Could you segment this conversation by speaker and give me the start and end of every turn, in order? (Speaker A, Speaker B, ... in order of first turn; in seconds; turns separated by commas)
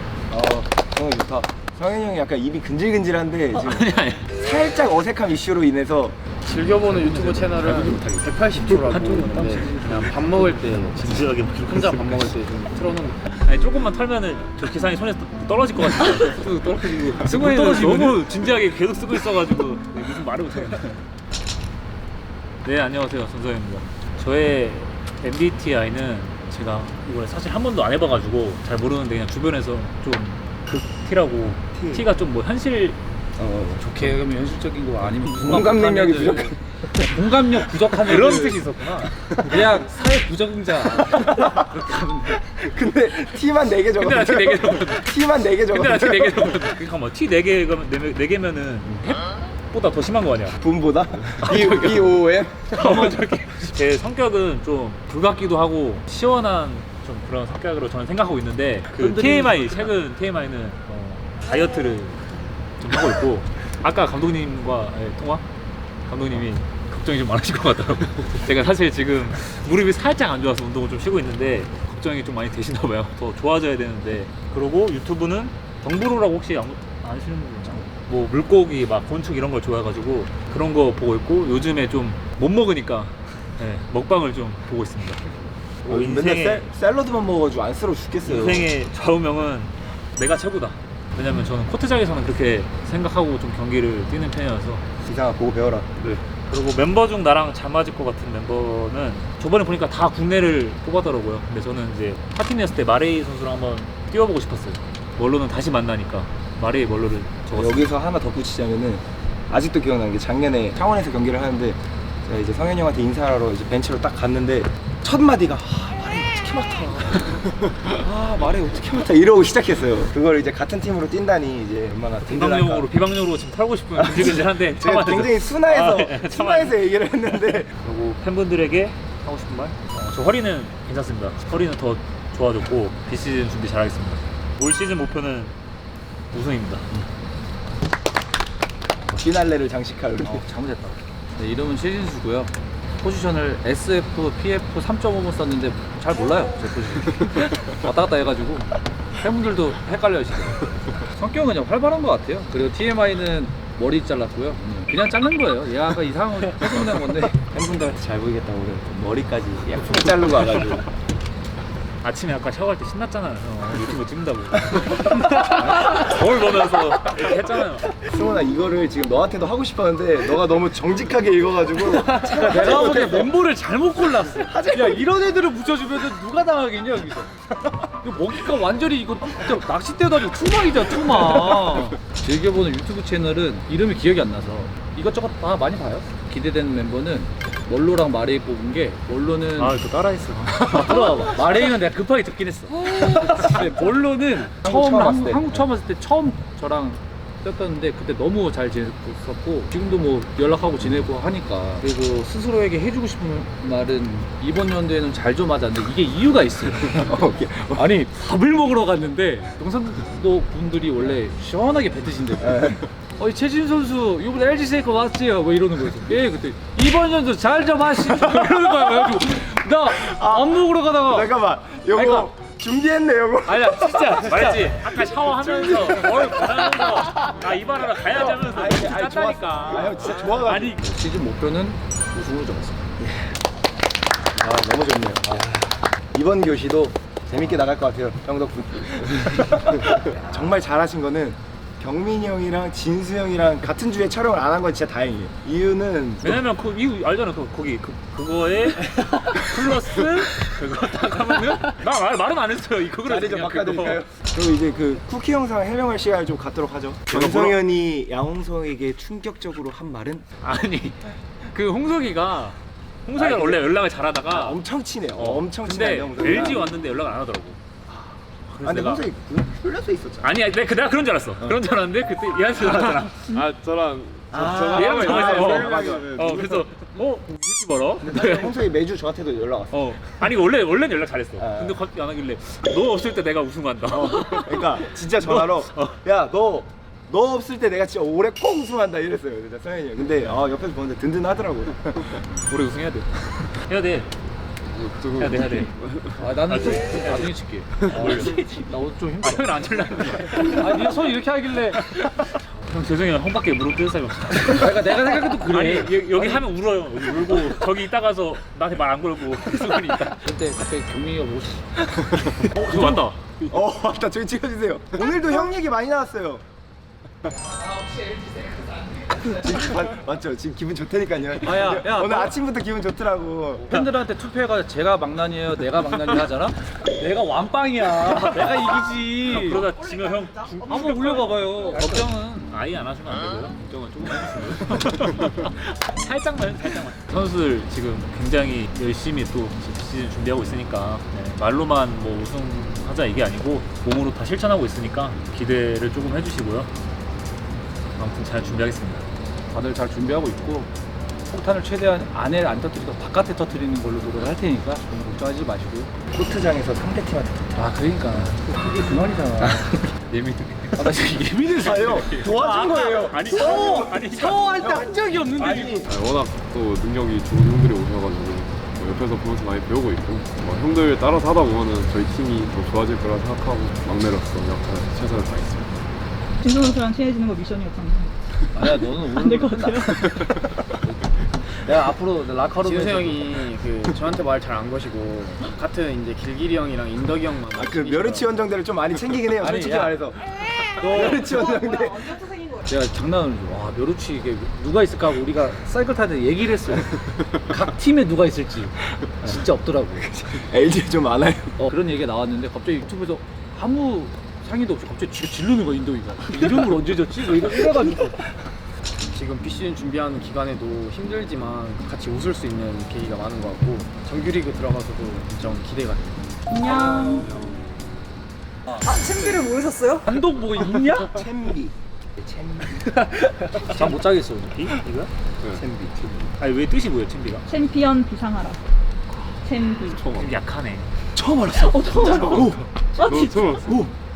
Speaker A: 0.3-6.2, Speaker B: 3.5-4.3, Speaker C: 6.4-13.2, Speaker B: 6.6-8.1, Speaker B: 8.6-12.3, Speaker B: 13.4-21.0, Speaker D: 17.2-18.2, Speaker B: 22.6-33.0, Speaker A: 31.7-32.0, Speaker A: 33.4-34.2, Speaker D: 33.8-38.6, Speaker A: 35.4-36.6, Speaker B: 38.0-39.2, Speaker D: 39.4-42.4, Speaker A: 41.3-41.6, Speaker A: 42.4-46.7, Speaker B: 44.0-45.1, Speaker B: 45.7-50.6, Speaker A: 50.6-53.2, Speaker B: 51.4-65.4, Speaker D: 59.0-59.9, Speaker B: 66.1-85.3, Speaker B: 85.8-86.7, Speaker A: 85.8-88.7, Speaker B: 88.2-94.8, Speaker A: 95.0-95.9, Speaker B: 96.3-107.8, Speaker A: 107.5-122.9, Speaker B: 122.2-126.8, Speaker A: 123.9-127.7, Speaker B: 127.3-135.5, Speaker B: 136.3-136.9, Speaker A: 139.1-140.4, Speaker D: 140.2-157.4, Speaker A: 157.4-160.9, Speaker B: 162.0-167.9, Speaker A: 167.9-173.3, Speaker D: 171.8-177.4, Speaker A: 174.3-175.1, Speaker D: 178.0-189.8, Speaker B: 189.6-191.3, Speaker D: 190.8-207.1, Speaker A: 194.6-195.7, Speaker A: 206.9-207.9, Speaker D: 207.7-221.3, Speaker A: 212.4-212.9, Speaker A: 218.1-224.3, Speaker D: 221.9-222.3, Speaker D: 223.5-224.8, Speaker B: 224.2-230.4, Speaker D: 225.3-226.1, Speaker A: 228.1-230.8, Speaker D: 230.2-232.9, Speaker A: 233.0-233.4, Speaker A: 234.3-246.4, Speaker B: 246.2-254.0, Speaker A: 253.0-260.2, Speaker E: 257.2-257.5, Speaker B: 260.4-264.6, Speaker A: 263.2-263.6, Speaker A: 264.3-266.7, Speaker B: 265.1-267.6, Speaker B: 268.5-269.1, Speaker A: 268.6-270.3, Speaker B: 270.2-273.3, Speaker E: 273.3-276.7, Speaker A: 274.3-276.2, Speaker B: 274.7-278.5, Speaker A: 278.0-280.0, Speaker B: 279.7-286.0, Speaker A: 281.4-281.8, Speaker A: 283.9-292.3, Speaker B: 292.5-294.1, Speaker E: 294.6-296.4, Speaker B: 295.2-295.7, Speaker D: 296.2-301.8, Speaker B: 296.5-297.3, Speaker E: 297.8-298.5, Speaker B: 299.2-300.9, Speaker B: 301.8-310.1, Speaker D: 304.4-306.4, Speaker D: 309.5-311.6, Speaker A: 311.9-312.4, Speaker B: 312.5-313.2, Speaker D: 312.7-313.0, Speaker A: 313.5-316.4, Speaker A: 319.2-323.7, Speaker D: 321.4-322.3, Speaker D: 323.6-329.7, Speaker B: 329.3-346.7, Speaker D: 330.6-332.1, Speaker B: 348.0-349.1, Speaker D: 349.5-350.7, Speaker D: 351.3-355.9, Speaker A: 356.1-357.7, Speaker D: 357.5-359.8, Speaker A: 359.4-359.8, Speaker B: 360.1-360.6, Speaker D: 360.7-362.3, Speaker A: 361.5-365.9, Speaker B: 362.3-364.6, Speaker D: 363.2-365.9, Speaker B: 365.4-365.8, Speaker E: 365.8-375.8, Speaker F: 376.4-378.1, Speaker D: 378.5-383.5, Speaker F: 379.2-380.1, Speaker C: 382.6-388.3, Speaker A: 387.5-392.5, Speaker D: 389.4-390.0, Speaker D: 390.8-391.3, Speaker D: 392.6-400.1, Speaker A: 400.0-401.6, Speaker D: 401.6-408.2, Speaker C: 409.1-416.2, Speaker F: 416.5-417.3, Speaker E: 417.2-417.6, Speaker D: 418.7-419.2, Speaker F: 418.9-420.0, Speaker D: 420.0-421.2, Speaker A: 421.0-423.0, Speaker D: 423.1-424.6, Speaker B: 424.5-425.1, Speaker A: 425.6-426.3, Speaker B: 426.4-427.4, Speaker F: 427.5-428.6, Speaker F: 429.4-430.0, Speaker B: 430.0-430.9, Speaker A: 431.1-432.6, Speaker F: 431.7-432.4, Speaker E: 432.2-433.9, Speaker F: 433.0-433.3, Speaker A: 433.6-433.9